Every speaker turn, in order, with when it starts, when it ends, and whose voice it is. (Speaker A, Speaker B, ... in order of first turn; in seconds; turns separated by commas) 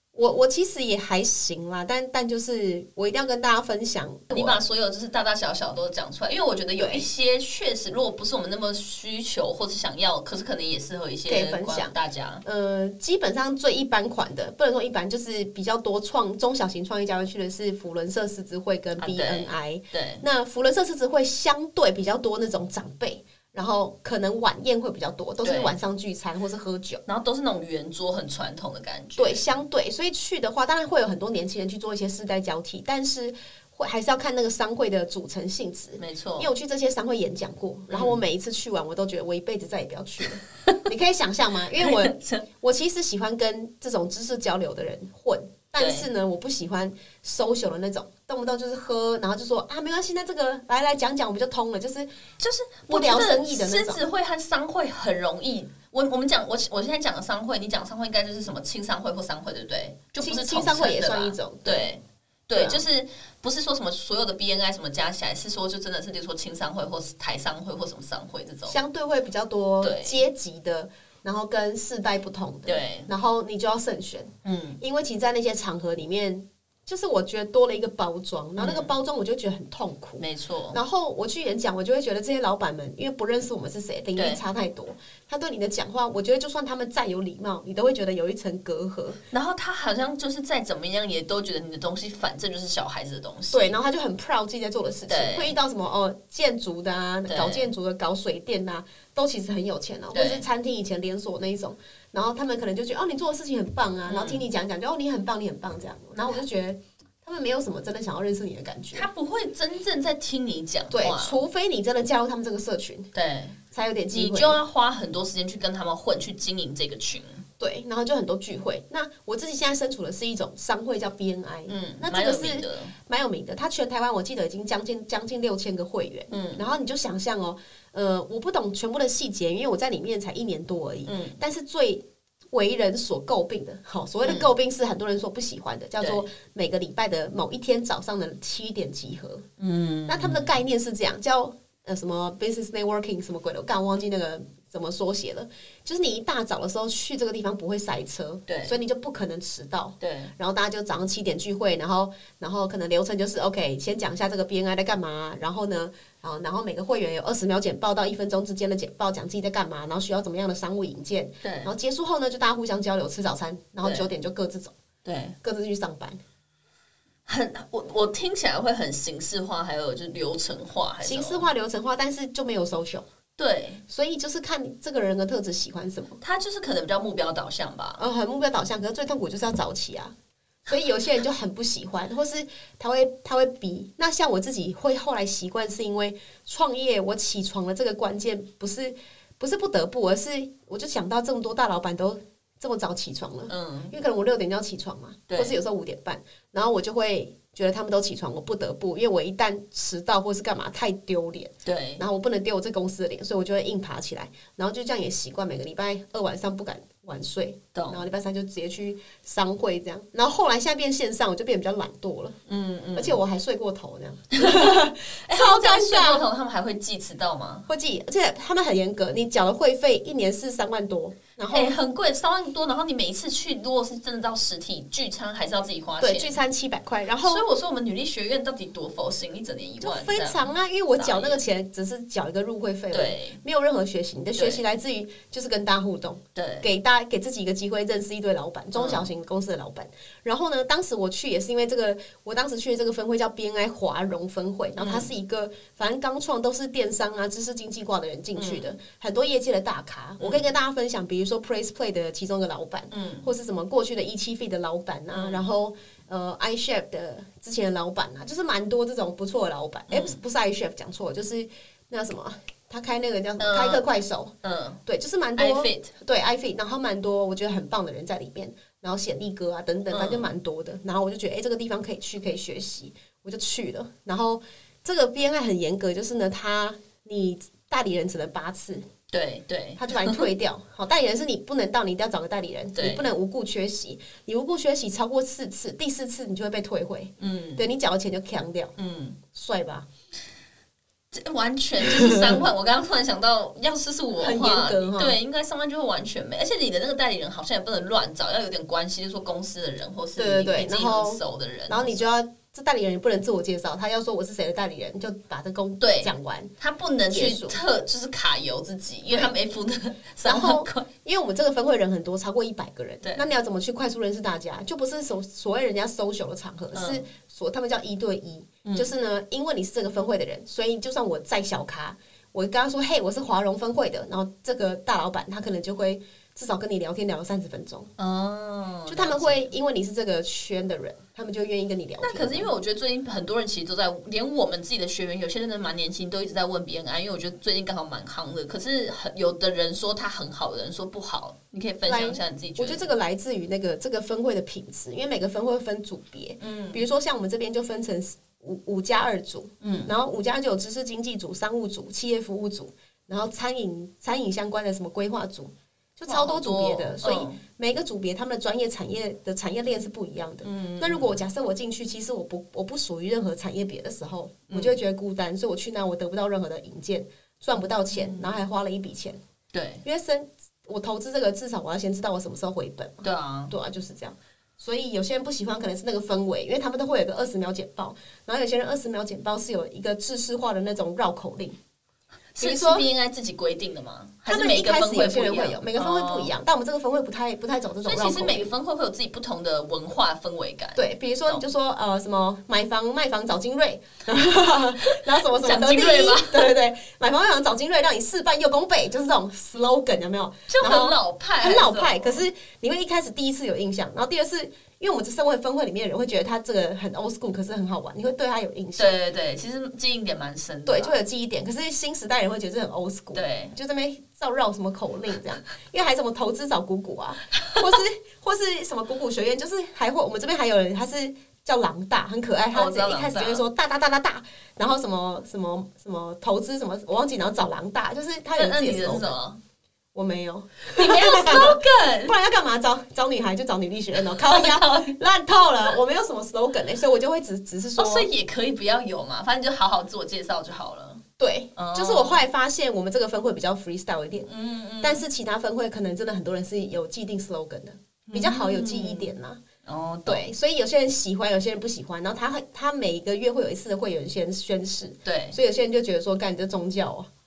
Speaker A: 0.1-4.6, Speaker B: 4.3-12.4, Speaker A: 6.8-7.1, Speaker A: 11.3-27.0, Speaker B: 19.0-20.2, Speaker B: 25.4-25.8, Speaker B: 27.1-29.5, Speaker A: 29.2-52.1, Speaker B: 36.0-36.5, Speaker B: 37.9-38.2, Speaker B: 41.8-42.5, Speaker B: 45.8-46.1, Speaker B: 52.4-68.8, Speaker A: 52.9-54.0, Speaker A: 60.2-61.9, Speaker A: 62.5-62.8, Speaker A: 68.7-89.2, Speaker B: 69.8-70.2, Speaker B: 72.7-73.1, Speaker B: 74.4-74.8, Speaker B: 78.6-79.0, Speaker B: 80.2-80.8, Speaker B: 84.2-84.4, Speaker B: 89.3-93.8, Speaker A: 93.5-109.1, Speaker B: 95.1-95.5, Speaker B: 97.3-97.7, Speaker B: 100.1-100.5, Speaker B: 104.0-104.4, Speaker B: 108.9-111.4, Speaker A: 110.9-113.1, Speaker B: 113.1-113.6, Speaker A: 113.7-114.6, Speaker B: 114.1-117.4, Speaker A: 117.6-139.5, Speaker B: 121.7-122.9, Speaker B: 126.3-126.6, Speaker B: 131.1-131.4, Speaker B: 134.2-134.5, Speaker B: 136.0-136.3, Speaker B: 139.6-140.6, Speaker A: 140.1-164.7, Speaker B: 148.5-148.8, Speaker B: 150.0-150.3, Speaker B: 161.4-161.7, Speaker B: 163.8-164.1, Speaker B: 165.1-165.4, Speaker A: 165.4-166.2, Speaker B: 167.3-171.5, Speaker A: 171.0-173.1, Speaker B: 173.4-173.8, Speaker A: 173.9-176.2, Speaker B: 176.2-178.1, Speaker A: 178.0-180.1, Speaker A: 180.7-212.4, Speaker B: 193.5-193.9, Speaker B: 195.3-195.6, Speaker B: 201.7-202.0, Speaker B: 207.7-208.0, Speaker B: 212.5-213.2, Speaker A: 212.9-216.2, Speaker B: 214.3-217.7, Speaker A: 217.7-221.8, Speaker B: 221.5-226.4, Speaker A: 226.0-227.4, Speaker B: 227.2-231.4, Speaker A: 229.8-264.3, Speaker B: 232.9-233.4, Speaker B: 234.4-234.6, Speaker B: 236.3-236.7, Speaker B: 238.8-239.1, Speaker B: 244.8-245.1, Speaker B: 248.3-248.7, Speaker B: 250.2-250.5, Speaker B: 252.9-253.3, Speaker B: 255.1-255.5, Speaker B: 259.9-260.2, Speaker B: 263.4-263.9, Speaker B: 264.4-264.8, Speaker A: 264.9-278.9, Speaker B: 265.4-265.9, Speaker B: 269.9-270.3, Speaker B: 279.1-280.2, Speaker A: 279.8-288.7, Speaker B: 282.8-283.1, Speaker B: 287.2-287.7, Speaker B: 288.8-289.2, Speaker A: 289.3-289.9, Speaker B: 291.1-302.0, Speaker A: 292.0-292.4, Speaker A: 294.2-295.2, Speaker A: 300.2-306.5, Speaker B: 305.8-310.9, Speaker A: 307.1-307.6, Speaker A: 310.2-327.9, Speaker B: 316.7-317.1, Speaker B: 318.6-318.9, Speaker B: 328.0-329.5, Speaker A: 328.9-332.5, Speaker B: 332.0-342.9, Speaker A: 341.9-369.2, Speaker B: 346.4-346.8, Speaker B: 349.6-349.9, Speaker B: 356.1-357.4, Speaker B: 360.4-361.2, Speaker B: 364.5-364.8, Speaker B: 367.9-368.5, Speaker B: 369.5-369.8, Speaker A: 369.8-381.6, Speaker B: 373.0-373.5, Speaker B: 382.4-386.3, Speaker A: 382.4-382.9, Speaker A: 384.3-388.5, Speaker B: 387.8-391.5, Speaker A: 390.8-408.9, Speaker B: 394.9-396.5, Speaker B: 400.5-402.2, Speaker B: 408.8-411.0, Speaker A: 410.7-429.1, Speaker B: 413.1-413.6, Speaker B: 417.3-417.8, Speaker B: 422.5-423.4, Speaker B: 428.4-429.4, Speaker A: 429.9-438.1, Speaker B: 430.7-432.2, Speaker B: 434.0-434.9, Speaker B: 437.8-441.0, Speaker A: 441.2-444.3, Speaker B: 441.6-442.2, Speaker B: 444.3-445.0, Speaker A: 444.8-449.4, Speaker B: 448.1-450.3, Speaker A: 450.1-457.1, Speaker B: 455.1-455.4